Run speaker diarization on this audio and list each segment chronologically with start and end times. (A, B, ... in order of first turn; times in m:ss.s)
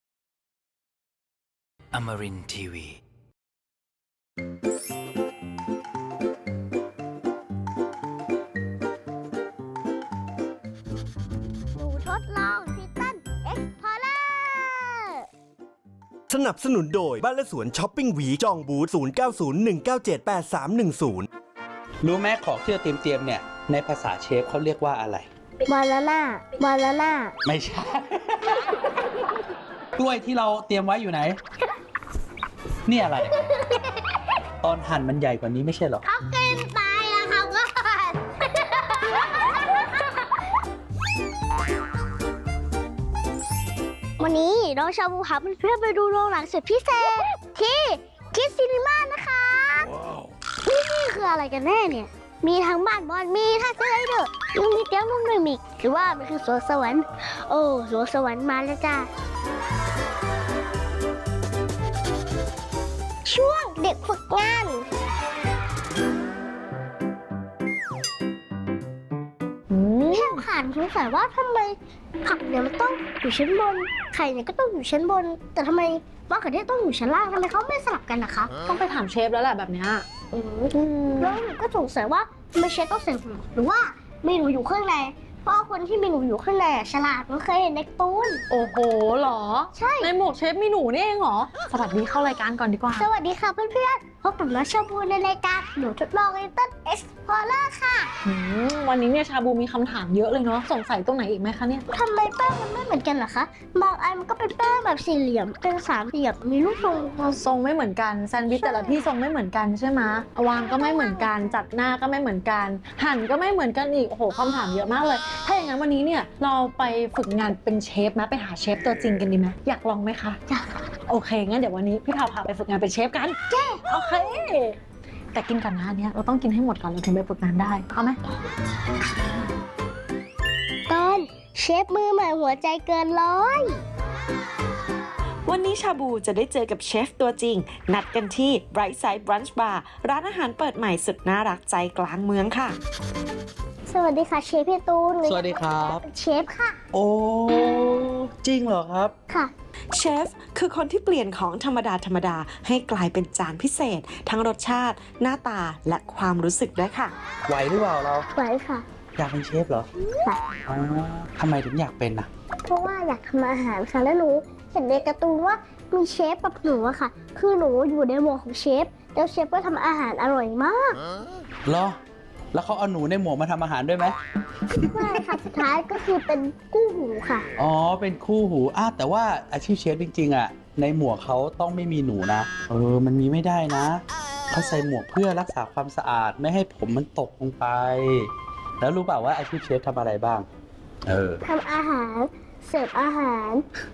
0:01.9-0:03.0 A
0:11.7-0:15.3 B
0:16.3-0:21.3 C
0:22.0-0:25.3 A
0:25.7-0:27.3 B
0:27.4-0:28.7 A
0:30.0-0:31.4 A
0:32.9-0:33.4 A
0:33.5-0:33.8 B
0:34.6-0:36.0 A
0:36.0-0:40.1 B
0:44.2-0:49.9 B
0:50.6-0:59.1 B
1:03.2-1:04.8 B
1:09.7-1:10.4 D
1:10.1-1:18.5 B
1:18.7-1:20.0 D
1:20.3-1:28.4 B
1:20.9-1:21.3 D
1:28.5-1:33.0 D
1:29.8-1:30.1 B
1:33.0-1:38.1 B
1:38.3-1:41.8 D
1:41.9-1:47.2 B
1:47.3-2:00.4 D
1:48.6-1:49.0 B
2:01.1-2:03.4 D
2:03.5-2:03.8 B
2:03.9-2:04.6 D
2:05.3-2:08.2 D
2:10.9-2:13.8 B
2:15.5-2:22.8 E
2:23.9-2:26.8 B
2:25.2-2:26.0 A
2:26.9-2:29.1 A
2:29.9-2:37.1 E
2:37.5-2:38.3 A
2:38.3-2:38.8 B
2:39.2-2:39.9 A
2:40.7-2:42.3 A
2:42.6-2:51.0 B
2:51.7-2:52.0 A
2:52.5-2:54.2 A
2:54.8-2:57.5 B
2:54.8-2:55.4 A
2:57.6-3:10.5 A
3:11.1-3:11.4 A
3:11.4-3:13.6 B